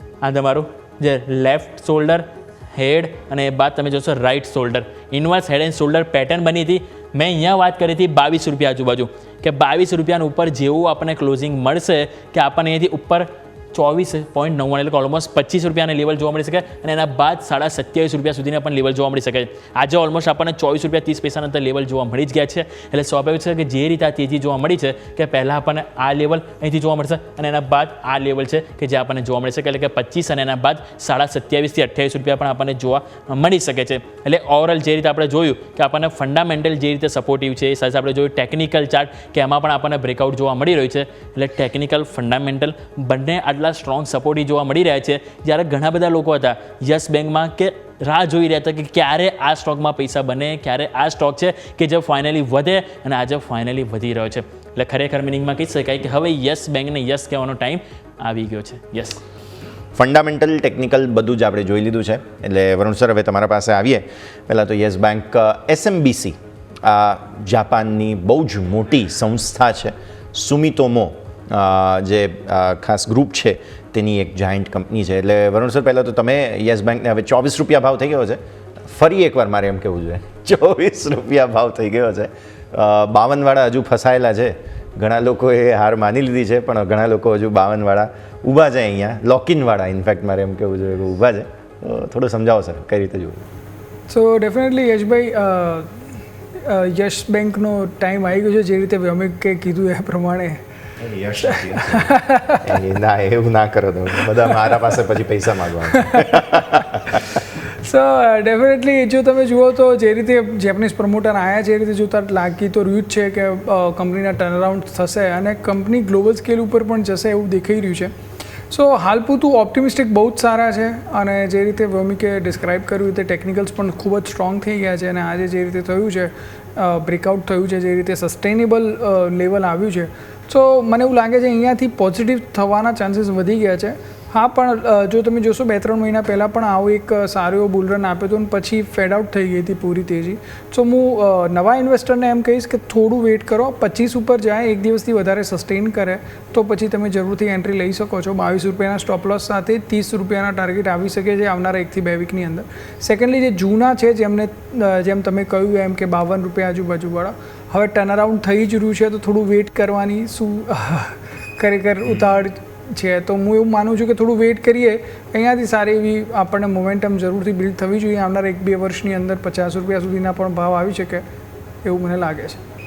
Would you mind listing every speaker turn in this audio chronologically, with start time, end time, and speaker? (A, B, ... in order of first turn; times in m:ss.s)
0:00.2-0:59.2 A
1:00.0-1:33.4 B
1:34.1-1:35.9 C
1:36.6-1:40.6 C
1:41.0-1:42.1 B
1:41.4-1:42.8 C
1:42.6-1:46.5 B
1:44.1-1:44.7 C
1:45.9-1:46.2 C
1:47.8-1:58.1 C
1:58.7-2:51.2 C
2:51.8-2:52.6 C